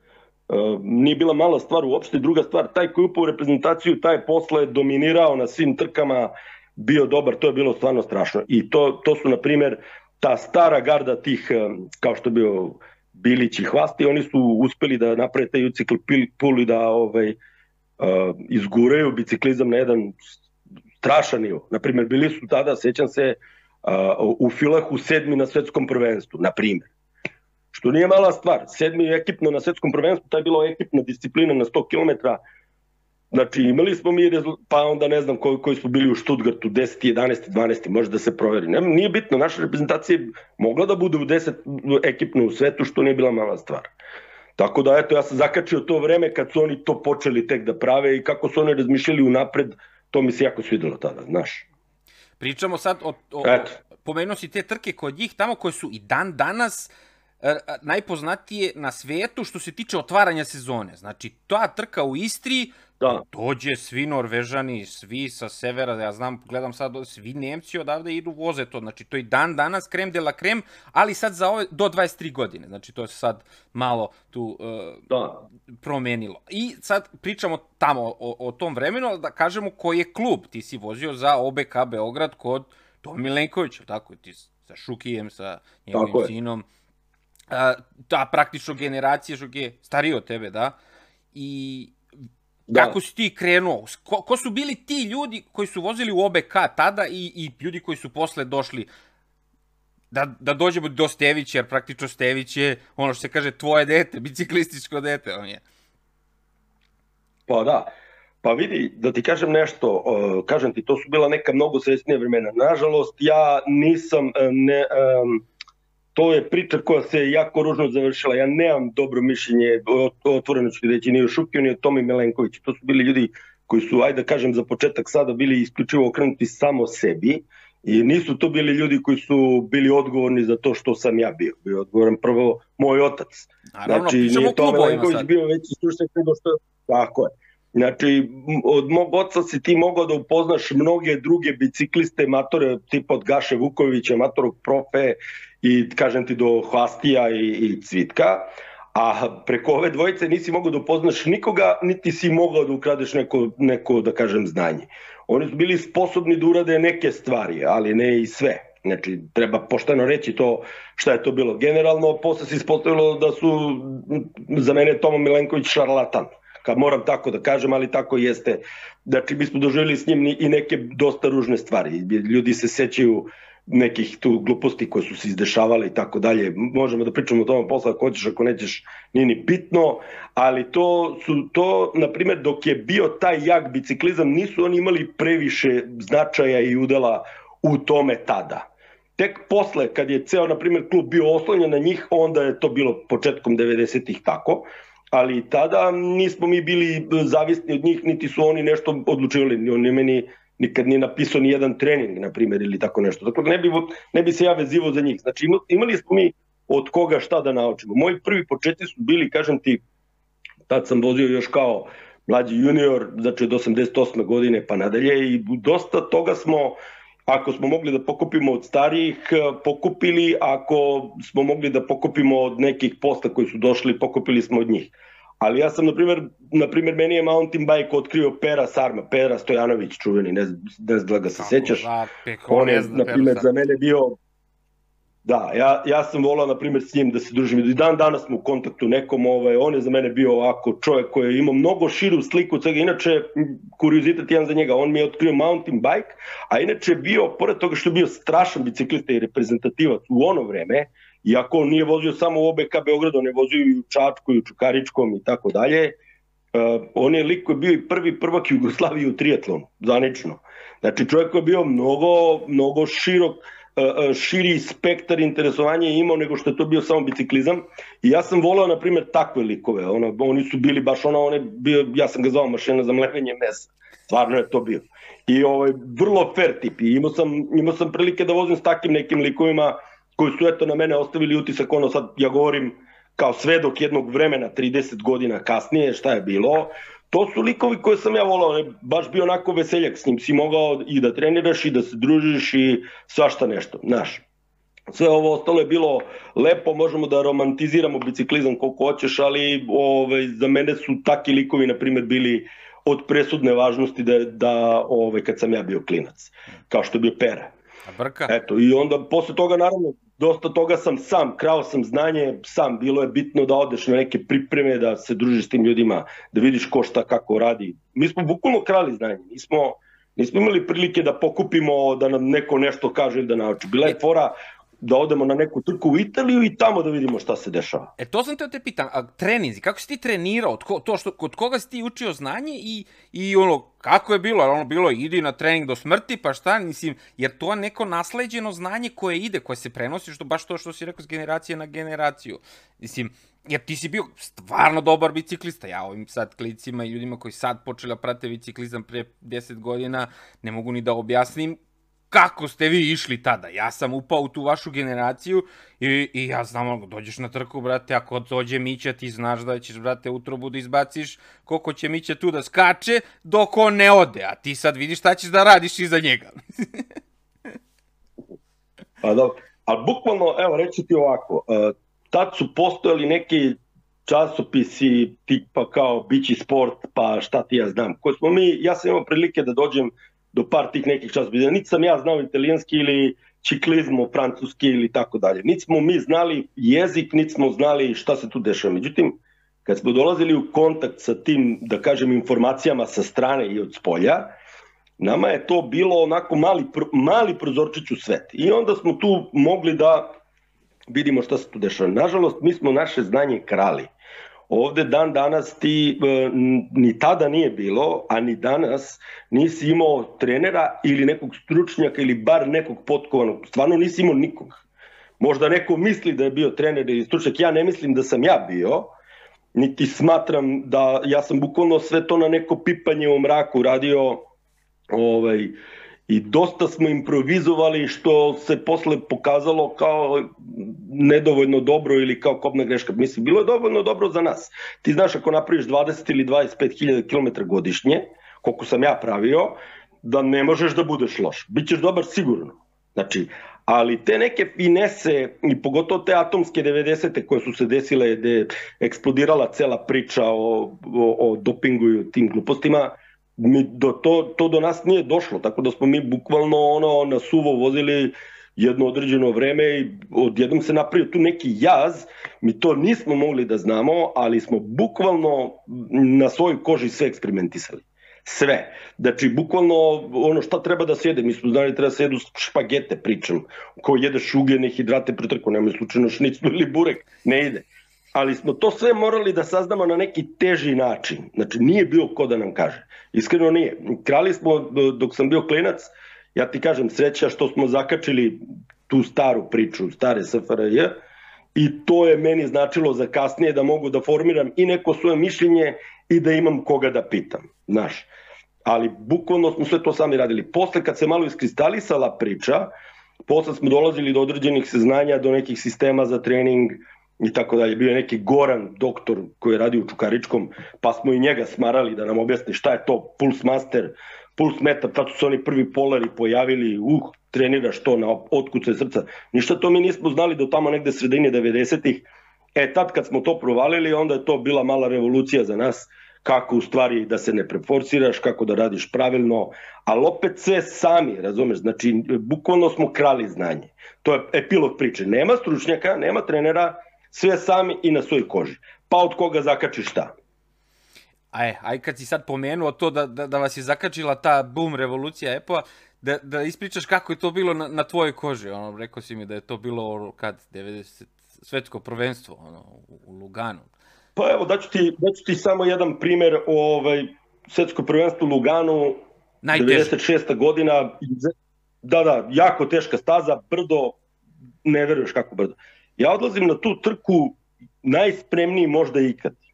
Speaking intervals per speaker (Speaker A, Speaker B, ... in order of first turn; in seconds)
Speaker A: 0.5-17.4, 18.0-20.2, 21.0-26.9, 27.7-32.4, 33.3-43.9, 44.6-51.6, 53.4-53.8, 75.1-75.4, 85.9-86.3, 92.7-92.9, 107.5-107.9, 108.4-115.4, 116.1-209.8, 210.7-231.9, 232.5-234.2, 235.2-256.0, 256.5-294.2, 294.9-307.5, 308.3-327.9, 369.0-394.3, 395.0-400.1, 400.9-403.9, 404.5-414.6, 415.2-418.9, 419.5-424.2, 424.9-425.6, 426.1-490.9, 491.6-498.1, 498.6-502.7, 503.3-540.1, 554.1-559.0, 559.5-564.0, 564.6-569.4
Speaker B: 52.4-56.9, 57.4-75.1, 75.8-86.6, 87.5-90.8, 91.3-92.0, 92.7-98.9, 100.1-105.6, 133.8-135.3, 231.4-233.5, 307.9-308.3, 328.0-351.6, 352.1-366.9, 541.3-553.7, 559.4-559.9